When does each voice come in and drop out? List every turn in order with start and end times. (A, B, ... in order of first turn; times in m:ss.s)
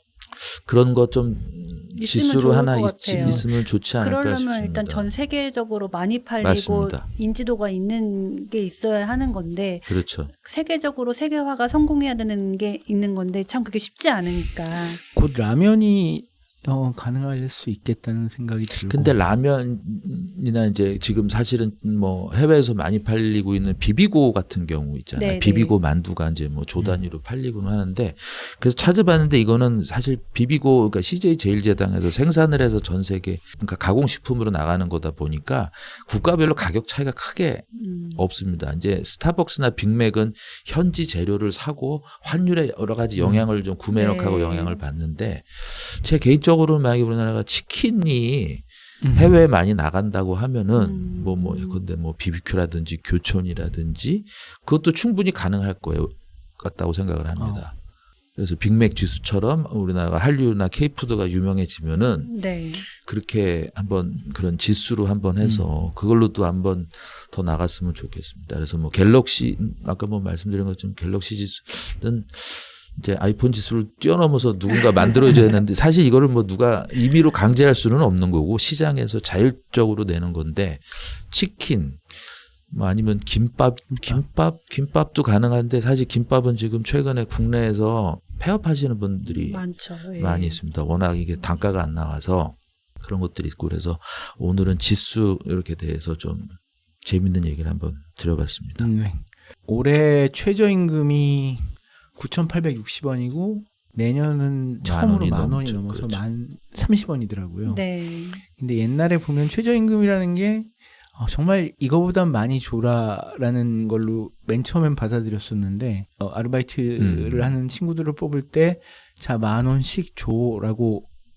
0:00.3-0:05.1 A
0:02.0-0:15.0 B
0:03.1-0:03.5 C
0:06.4-0:07.0 A
0:09.9-0:10.3 A
0:15.1-0:19.2 C
0:18.8-0:48.6 A
0:25.2-0:25.7 B
0:26.8-0:27.0 C
0:37.8-0:38.2 B
0:43.2-0:43.5 C
0:43.9-0:44.8 B
0:49.0-0:49.4 C
0:49.1-0:57.7 A
0:50.7-0:51.8 B
0:57.4-0:57.7 C
0:58.4-1:29.6 A
1:02.2-1:02.8 B
1:05.4-1:05.8 C
1:23.9-1:24.2 C
1:29.3-1:30.6 B
1:30.2-1:38.9 A
1:38.8-1:47.8 C
1:44.8-1:46.2 A
1:47.6-1:48.4 B
1:48.4-2:01.1 C
1:57.0-1:57.5 A